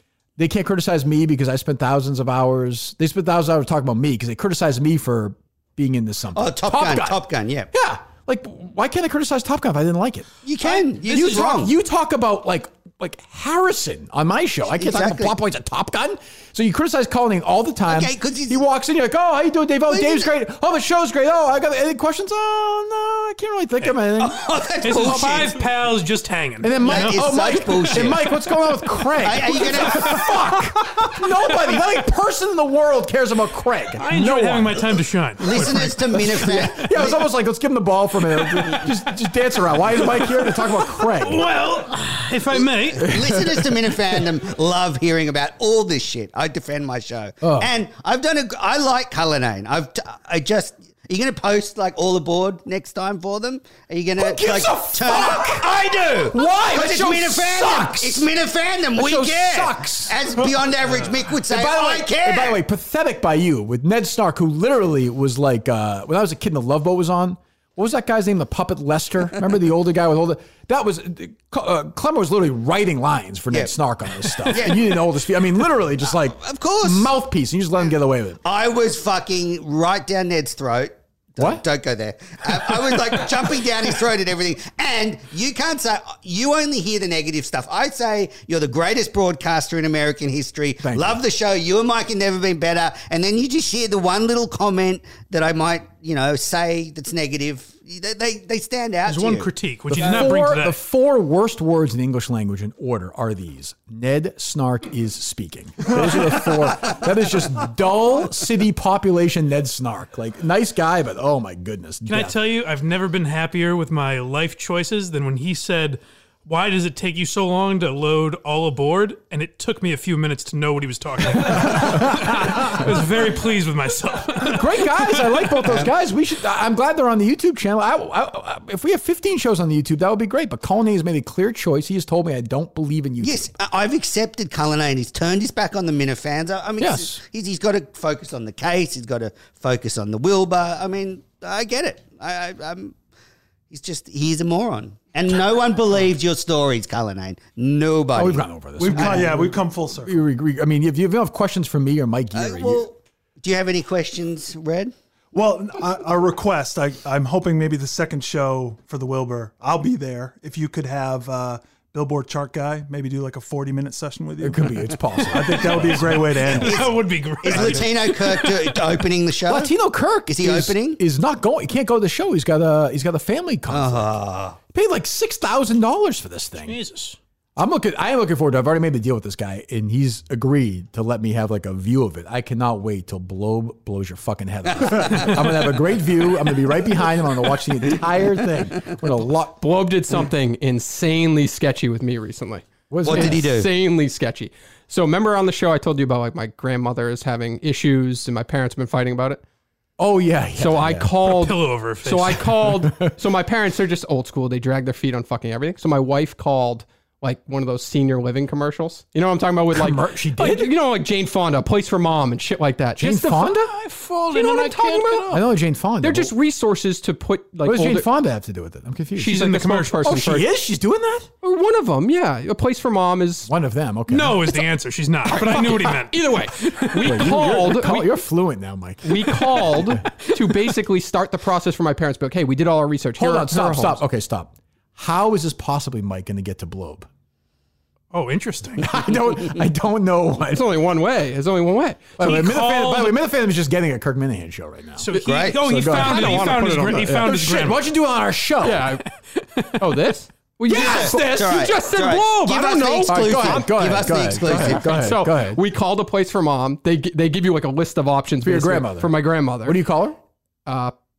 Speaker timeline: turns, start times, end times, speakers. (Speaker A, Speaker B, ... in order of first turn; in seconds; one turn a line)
Speaker A: 0.4-7.2
Speaker B: 6.3-7.7
Speaker A: 7.7-10.3
Speaker B: 10.4-11.7
Speaker C: 10.7-11.6
Speaker A: 11.0-25.3
Speaker B: 14.7-15.3
Speaker B: 17.9-18.6
Speaker B: 19.9-20.3
Speaker B: 24.2-25.6
Speaker C: 24.8-27.3
Speaker A: 26.6-35.0
Speaker B: 26.8-28.3
Speaker B: 29.2-30.3
Speaker C: 33.9-36.4
Speaker B: 35.4-37.2
Speaker A: 35.6-41.5
Speaker C: 40.2-43.2
Speaker B: 42.5-62.6
Speaker A: 43.0-43.9
Speaker A: 47.4-47.7
Speaker A: 54.2-55.7
Speaker A: 56.3-58.3
Speaker A: 58.9-60.5
Speaker A: 61.3-78.4
Speaker B: 73.5-75.0
Speaker B: 76.3-77.1
Speaker B: 78.4-99.5
Speaker A: 81.4-81.6
Speaker A: 90.8-91.2
Speaker C: 99.0-100.8
Speaker A: 99.9-112.3
Speaker C: 112.1-125.5
Speaker A: 121.5-123.0
Speaker A: 124.4-133.5
Speaker B: 125.6-125.9
Speaker B: 133.2-142.9
Speaker A: 136.8-137.2
Speaker B: 143.7-149.3
Speaker A: 148.2-152.8
Speaker D: 148.8-150.2
Speaker B: 152.3-154.9
Speaker D: 155.3-166.9
Speaker A: 164.4-166.3
Speaker C: 165.4-168.9
Speaker B: 166.4-169.7
Speaker A: 167.5-167.9
Speaker A: 169.5-174.1
Speaker B: 170.3-171.0
Speaker B: 173.7-174.6
Speaker A: 174.7-176.8
Speaker C: 176.6-177.2
Speaker A: 177.6-189.6
Speaker B: 184.7-185.3
Speaker E: 189.5-199.4
Speaker A: 192.9-193.5
Speaker B: 193.0-193.7
Speaker A: 200.0-201.4
Speaker E: 200.6-213.7
Speaker C: 201.2-202.4
Speaker A: 202.3-203.1
Speaker A: 209.7-210.7
Speaker A: 213.0-213.7
Speaker C: 213.6-215.4
Speaker E: 214.3-215.4
Speaker A: 215.3-216.3
Speaker E: 216.0-218.1
Speaker A: 217.6-221.3
Speaker E: 219.2-220.5
Speaker C: 219.2-220.1
Speaker E: 221.4-223.5
Speaker A: 223.5-224.5
Speaker C: 224.1-227.2
Speaker E: 225.3-228.1
Speaker A: 227.0-230.0
Speaker E: 229.0-234.0
Speaker A: 233.2-237.1
Speaker C: 238.1-238.9
Speaker A: 238.8-240.7
Speaker E: 240.5-242.2
Speaker A: 242.2-249.0
Speaker C: 242.2-243.2
Speaker C: 245.0-247.9
Speaker B: 245.1-245.6
Speaker E: 245.8-247.3
Speaker E: 248.6-249.0
Speaker C: 249.5-249.8
Speaker E: 249.8-259.8
Speaker A: 250.6-251.7
Speaker B: 250.7-255.1
Speaker A: 253.1-255.6
Speaker A: 258.4-260.2
Speaker E: 260.6-260.9